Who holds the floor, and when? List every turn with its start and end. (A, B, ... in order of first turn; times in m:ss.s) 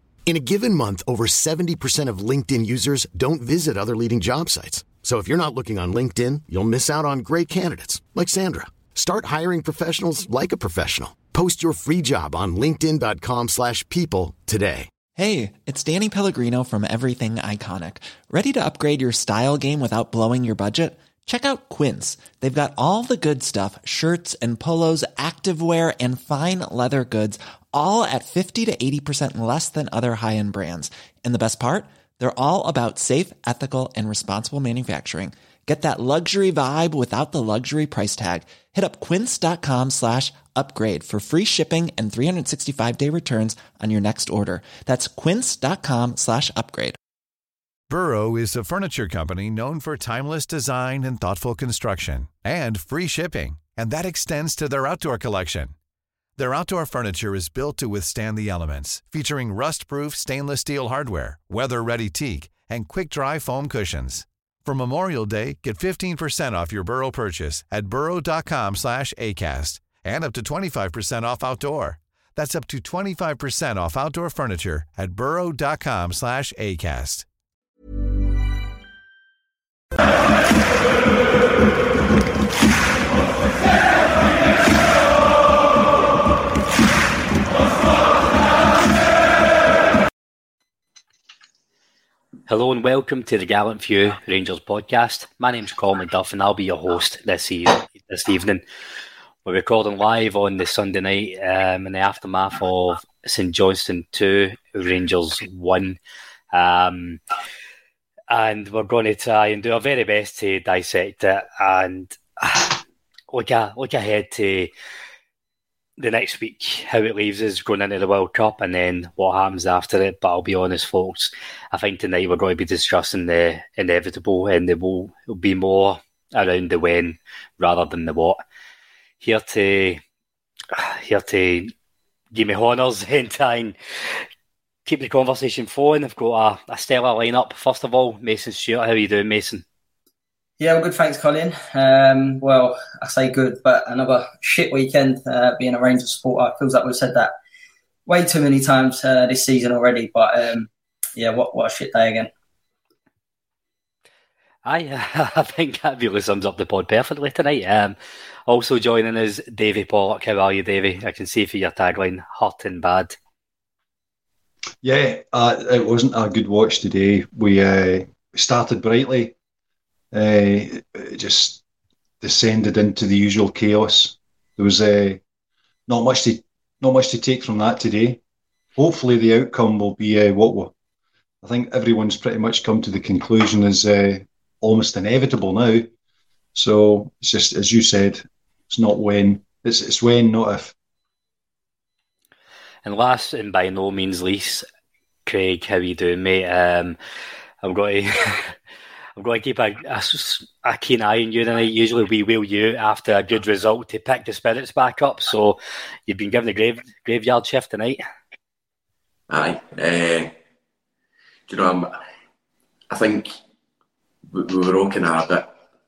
0:00.3-0:14.9 A
0:15.2-0:47.0 B
0:47.9-0:55.7 C
0:56.4-1:17.3 C
1:32.5-1:38.6 D
1:39.4-1:46.0 D
1:46.5-1:47.2 D
1:48.3-1:52.8 D
1:53.3-1:54.7 D
1:56.0-2:08.4 D
2:09.2-2:10.0 D
2:10.7-2:11.7 D
2:12.3-2:13.8 D
2:14.9-2:19.6 D
2:20.6-2:27.3 E
2:28.1-2:32.3 E
2:34.6-2:38.0 D
2:38.5-2:43.2 D
2:44.8-2:49.4 F
2:50.1-2:51.6 F
2:52.2-2:55.2 F
2:55.9-2:58.2 F
2:58.8-3:00.7 F
3:01.4-3:05.9 F
3:06.6-3:10.8 F
3:12.8-3:14.7 D
3:15.3-3:17.0 D
3:17.6-3:18.5 D
3:19.2-3:28.0 D
3:29.3-3:30.3 G
3:31.5-3:32.0 G
3:32.9-3:33.3 G
3:34.3-3:35.5 G